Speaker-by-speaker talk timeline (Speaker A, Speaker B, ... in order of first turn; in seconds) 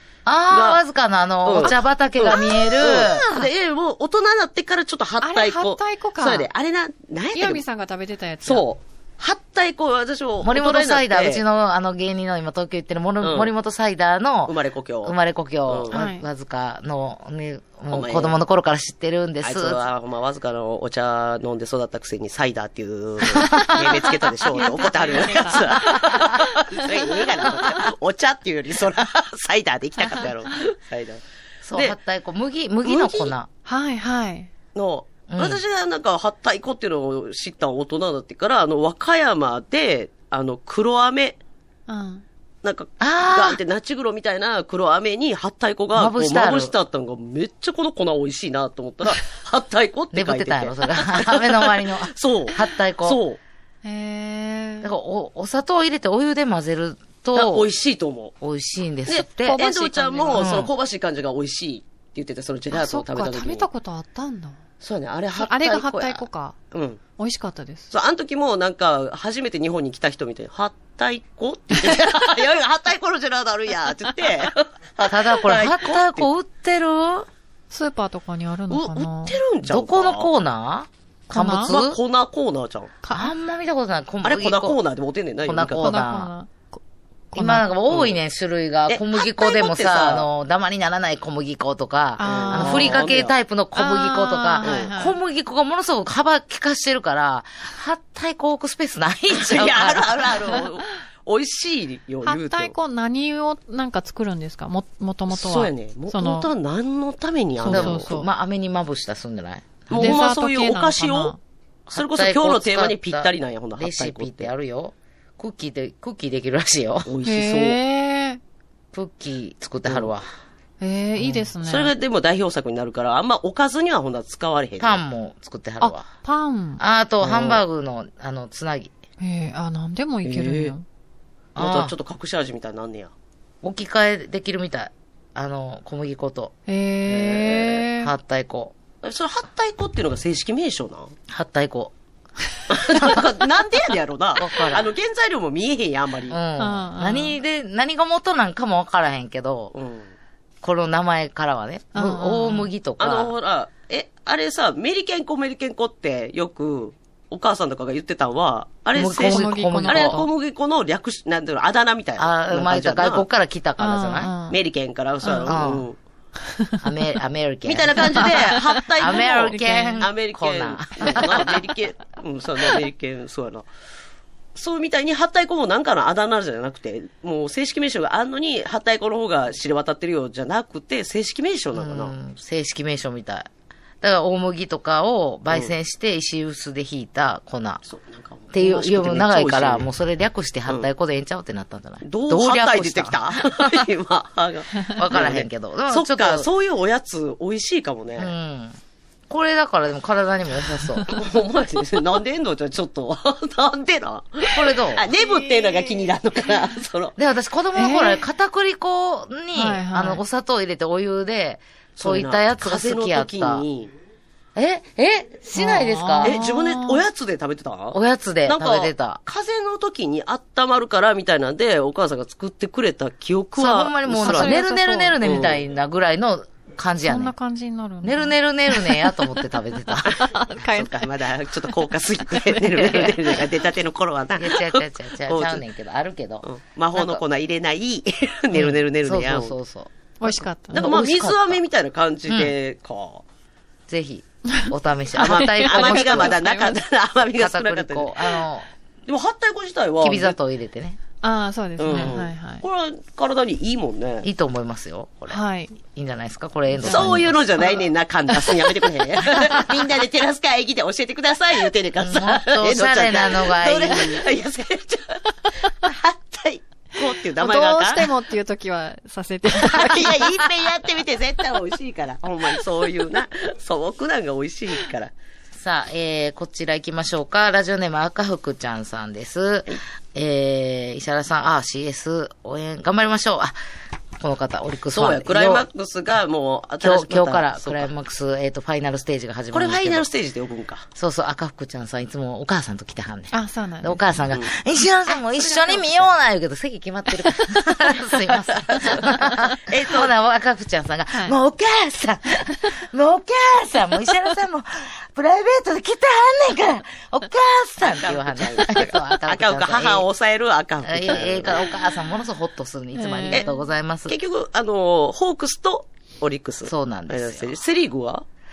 Speaker A: 0.2-3.3, 10.4-19.8, 31.6-33.5, 35.3-35.6, 43.0-43.6, 45.9-46.7, 50.1-53.2, 54.8-57.7, 58.4-60.7, 75.1-77.3, 79.6-82.0, 83.1-84.8, 85.5-86.3, 87.3-100.4, 107.7-110.2, 111.9-117.1, 118.9-120.3, 121.2-121.5, 124.8-126.1, 126.8-128.9, 131.6-131.9, 133.6-136.5, 137.9-138.8, 141.3-141.9, 142.9-143.3, 144.4-144.9, 146.3-149.7, 150.6-153.3, 159.0-160.2, 162.2-164.3, 165.5-165.8, 166.8-171.6, 181.8-183.5, 184.0-187.8, 188.5-193.9, 194.9-196.5, 198.2-198.8, 199.3-201.1, 204.5-205.1, 207.2-213.7, 214.6-216.4, 217.9-219.2, 223.6-227.3, 228.0-230.1, 232.8-233.2, 234.4-237.2, 238.5-241.6, 242.3-242.5, 243.9-246.4, 247.4-248.7, 250.0-251.0, 251.9-252.2, 254.2-257.4, 262.0-264.3, 275.6-283.6, 284.2-285.7, 286.8-290.1, 291.0-310.1, 310.8-314.2, 316.7-317.6
Speaker B: 0.5-0.8, 1.4-7.6, 8.4-11.4, 13.2-13.5, 14.5-15.2, 15.7-16.0, 17.9-18.4, 19.4-31.2, 32.8-33.3, 34.8-41.4, 42.6-53.4, 57.3-58.3, 59.1-63.7, 64.8-67.0, 67.9-76.3, 78.7-80.3, 81.7-82.9, 84.2-86.0, 87.9-88.2, 88.9-90.3, 92.2-93.3, 94.6-94.9, 99.3-102.7, 105.3-108.1, 109.9-111.3, 111.9-114.5, 117.1-117.8, 119.9-120.1, 121.6-125.0, 127.2-127.6, 130.2-130.8, 131.6-133.1, 137.1-137.8, 139.0-141.1, 142.7-146.4, 149.7-150.1, 153.0-163.2, 164.5-166.0, 167.7-173.7, 174.6-182.2, 187.8-189.9, 192.0-198.3, 201.1-207.2, 212.0-213.9, 216.2-224.6, 225.2-225.6, 230.6-235.6, 236.4-239.6, 240.7-243.2, 245.2-248.2, 249.1-250.4, 251.8-254.3, 256.8-268.1, 269.6-275.1, 284.9-287.9, 289.5-290.9, 298.3-300.1, 307.8-311.6, 314.1-318.2
Speaker C: 2.4-3.3, 5.2-6.5, 7.3-8.7, 15.9-16.2, 23.3-27.8, 33.6-34.5, 41.9-42.2, 53.8-54.9, 59.5-60.5, 62.7-64.6, 65.3-66.6, 67.2-67.9, 77.7-79.4, 81.3-81.8, 83.0-83.3, 85.8-86.8, 87.3-87.7, 92.2-93.0, 93.8-95.2, 102.2-106.5, 107.6-108.3, 110.0-111.4, 117.2-118.4, 120.8-121.9, 125.8-126.8, 129.2-130.8, 136.7-138.1, 146.6-147.4, 151.9-152.7, 159.1-160.3, 163.8-164.6, 165.2-165.5, 168.2-170.1, 171.0-171.6, 205.1-206.1, 207.7-208.2, 209.5-210.2, 215.6-217.0, 224.1-225.2, 227.1-231.1, 231.6-233.3, 240.2-240.9, 245.2-246.8, 251.2-252.6, 255.3-255.8, 256.8-257.8, 258.4-258.8, 267.4-270.3, 293.3-294.0, 295.4-295.7, 297.2-297.7, 312.9-313.6